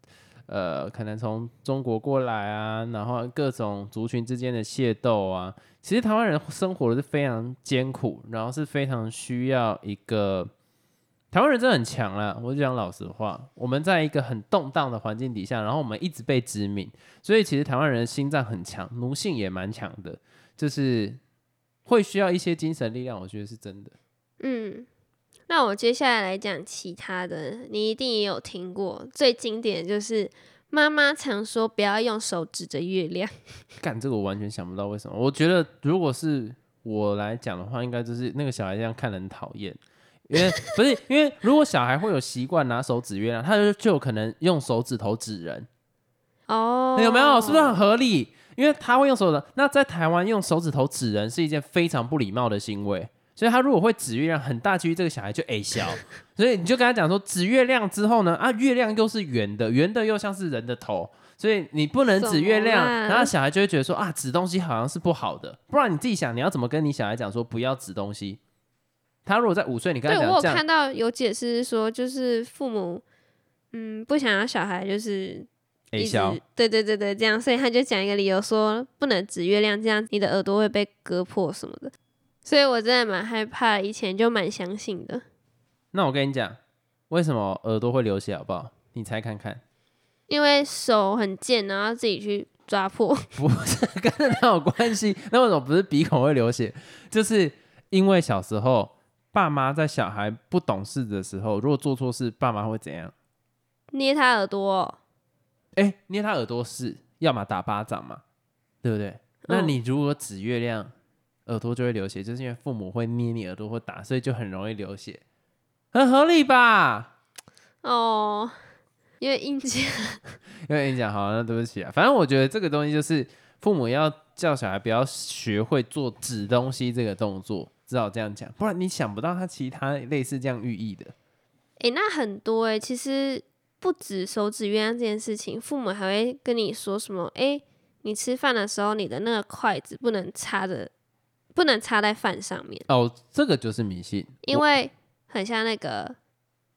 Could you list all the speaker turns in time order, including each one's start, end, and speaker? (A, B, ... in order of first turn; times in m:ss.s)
0:00.5-0:10.5 A
0:11.3-0:21.2 A
0:21.8-0:23.9 A
0:24.4-0:24.9 B
0:25.5-0:33.3 B
0:33.8-0:45.7 A
0:46.5-0:47.8 B
0:47.0-1:08.4 A
1:02.2-1:03.3 B
1:09.2-1:10.6 A
1:10.1-1:13.0 B
1:13.7-1:21.9 B
1:15.9-1:16.4 A
1:22.4-1:25.2 B
1:25.9-1:26.6 A
1:27.1-1:29.6 A
1:30.3-1:33.3 B
1:33.4-1:43.1 A
1:43.9-1:45.0 B
1:45.7-1:48.2 A
1:48.8-1:50.9 A
1:49.4-1:49.8 B
1:51.4-1:55.2 A
1:55.9-1:57.1 A
1:57.8-1:58.5 B
1:59.2-2:00.2 B
2:00.7-2:11.1 A
2:11.8-2:20.9 B
2:21.5-2:22.8 B
2:22.9-2:24.6 A
2:24.4-2:26.2 B